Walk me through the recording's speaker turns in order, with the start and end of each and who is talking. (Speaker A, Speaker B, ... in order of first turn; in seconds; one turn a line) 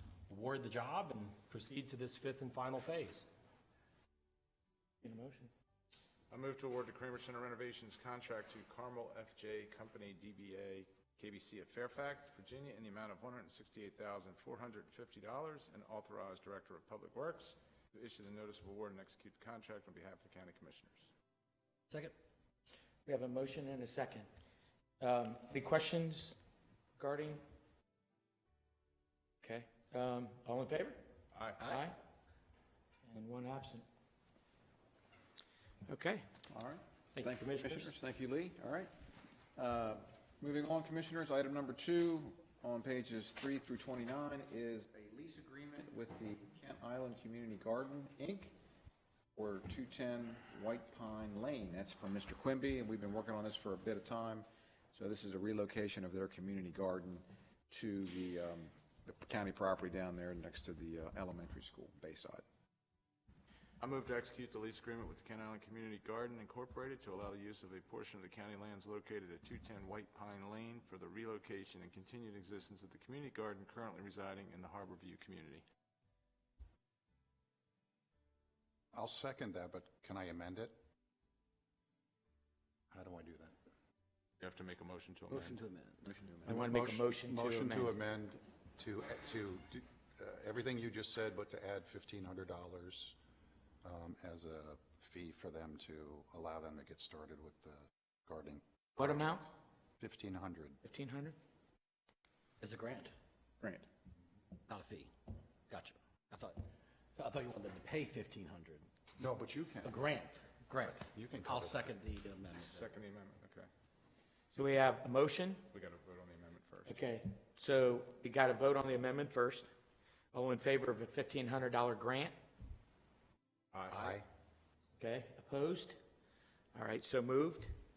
Speaker A: 0.3-3.2
Speaker B: 5.0-5.5
Speaker C: 6.3-21.1
Speaker D: 21.9-22.1
Speaker B: 23.0-24.3
Speaker B: 25.0-26.4
Speaker B: 26.9-27.4
Speaker B: 29.4-31.0
Speaker C: 31.3-31.6
Speaker D: 31.6-31.9
Speaker B: 31.7-32.0
Speaker B: 33.0-33.8
Speaker B: 35.9-36.3
Speaker E: 36.5-38.9
Speaker A: 37.1-37.9
Speaker E: 39.5-48.5
Speaker E: 49.3-62.4
Speaker C: 63.8-75.6
Speaker F: 78.9-80.8
Speaker F: 82.9-83.5
Speaker C: 84.4-85.6
Speaker D: 85.3-86.6
Speaker F: 86.5-93.2
Speaker B: 86.5-87.9
Speaker F: 93.8-100.8
Speaker B: 99.0-99.4
Speaker B: 100.8-101.3
Speaker D: 102.6-103.1
Speaker E: 103.6-103.9
Speaker D: 104.7-105.1
Speaker D: 105.7-108.9
Speaker F: 109.2-110.0
Speaker D: 109.8-112.9
Speaker F: 111.0-112.0
Speaker C: 112.5-113.7
Speaker B: 114.5-115.6
Speaker C: 115.7-117.1
Speaker B: 116.9-119.7
Speaker B: 120.3-122.3
Speaker C: 123.7-124.2
Speaker F: 123.9-124.2
Speaker B: 125.0-126.0
Speaker B: 126.7-127.7